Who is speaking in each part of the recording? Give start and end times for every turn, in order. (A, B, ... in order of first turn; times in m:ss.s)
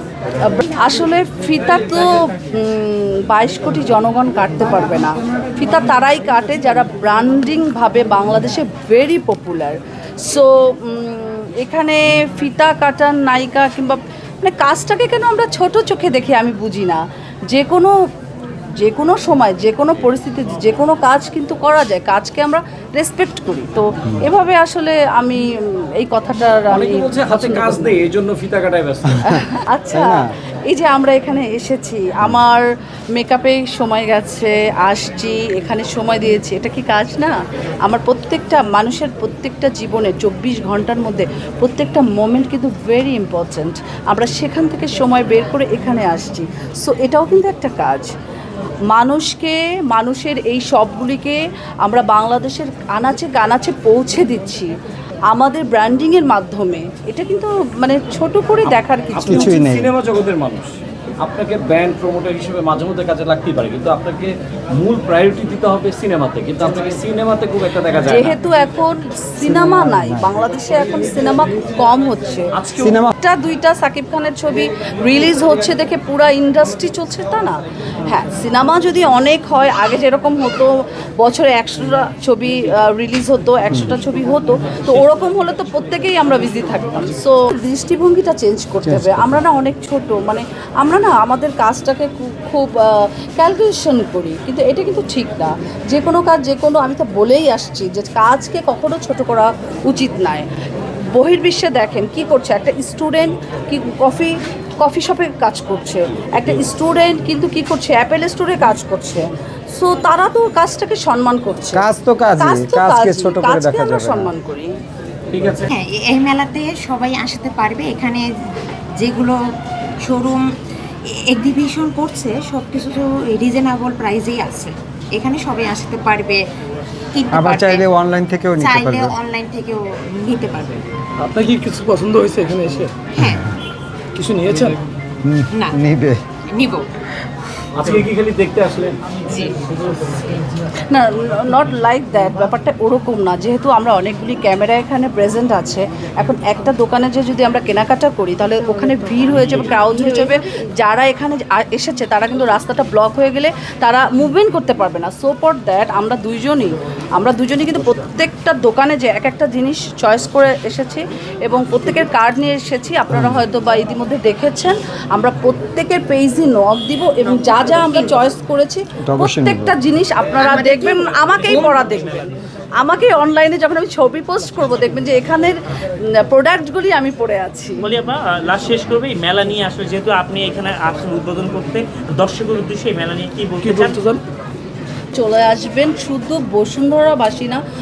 0:00.4-0:17.9 A
0:18.8-0:25.4 A
0:26.0-0:28.0 A
0:26.7-0:29.2 B
0:29.2-0:30.2 A
0:29.9-0:30.3 C
0:30.7-0:32.6 A
0:33.2-0:48.1 A
0:48.9-0:54.7 A
0:55.3-0:59.6 A
0:59.1-1:08.4 B
0:59.2-0:59.9 C
1:08.1-1:12.5 A
1:09.4-1:10.4 C
1:12.6-1:13.1 B
1:12.8-1:13.1 C
1:13.2-1:40.5 A
1:28.8-1:29.4 C
1:41.1-1:51.8 A
1:51.7-1:54.3 C
1:52.4-1:54.8 A
1:55.3-1:55.7 B
1:55.7-1:58.3 D
1:59.0-1:59.4 D
2:00.0-2:00.5 D
2:01.1-2:06.4 D
2:07.1-2:07.9 D
2:07.3-2:09.2 C
2:08.6-2:10.8 D
2:11.2-2:13.0 E
2:13.2-2:13.4 D
2:13.2-2:13.5 C
2:14.2-2:14.8 E
2:15.2-2:16.2 C
2:15.5-2:15.8 D
2:16.5-2:16.9 D
2:17.7-2:19.0 B
2:20.9-2:55.6 A
2:28.8-2:30.7 D
2:43.1-2:43.4 C
2:49.1-2:49.8 C
2:50.4-2:51.9 D
2:56.1-2:57.9 A
2:57.8-3:04.0 F
3:03.6-3:04.2 E
3:05.2-3:07.6 A